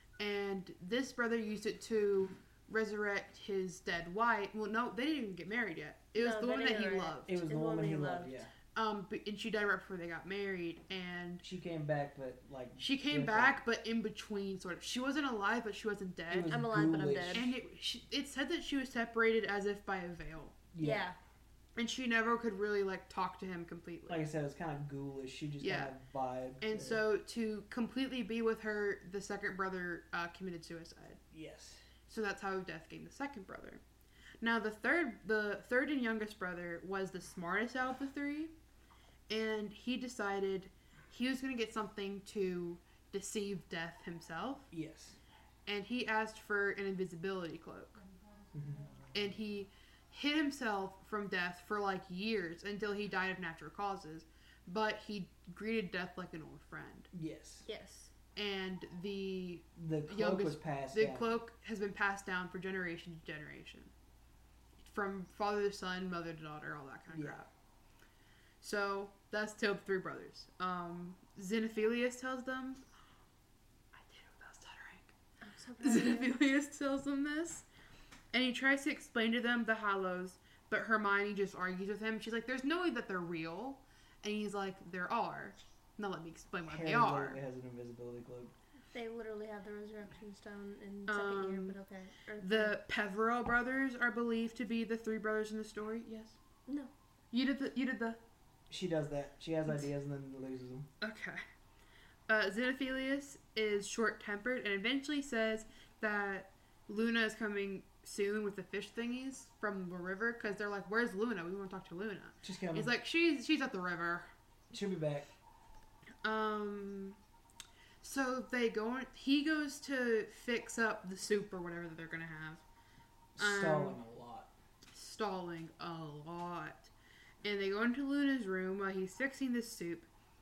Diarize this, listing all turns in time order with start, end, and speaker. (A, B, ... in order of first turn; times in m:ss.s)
0:00.2-0:07.3 A
0:06.2-0:08.4 B
0:07.2-0:08.5 C
0:08.7-0:11.4 A
0:11.4-0:13.6 C
0:12.8-0:16.6 A
0:16.3-0:17.5 C
0:16.4-0:17.5 B
0:17.3-0:20.6 A
0:20.7-0:21.0 C
0:20.8-0:21.2 B
0:21.8-0:24.2 A
0:24.1-0:27.0 C
0:25.6-0:25.9 A
0:26.6-0:31.2 A
0:31.3-0:31.8 C
0:32.0-0:33.8 A
0:34.4-0:38.5 A
0:39.3-0:44.7 A
0:44.7-0:45.2 C
0:45.6-0:48.0 A
0:48.5-0:48.9 C
0:49.1-0:57.1 A
0:57.1-0:57.6 C
0:57.6-0:58.1 B
0:58.4-1:03.9 A
0:59.7-1:01.3 C
1:04.8-1:07.5 A
1:07.1-1:07.4 C
1:08.6-1:12.8 A
1:13.9-1:15.1 A
1:15.4-1:16.3 B
1:15.8-1:17.6 A
1:18.3-1:27.4 A
1:26.7-1:28.5 C
1:28.9-1:32.8 B
1:31.1-1:31.8 A
1:32.4-1:36.4 A
1:37.3-1:38.2 A
1:38.7-1:40.9 C
1:41.0-1:41.4 A
1:42.3-1:54.3 A
1:52.4-1:52.9 C
1:54.7-1:55.3 C
1:56.2-1:57.2 A
1:58.0-2:02.6 A
2:03.4-2:04.5 C
2:03.4-2:04.0 A
2:04.9-2:06.9 A
2:07.4-2:10.1 A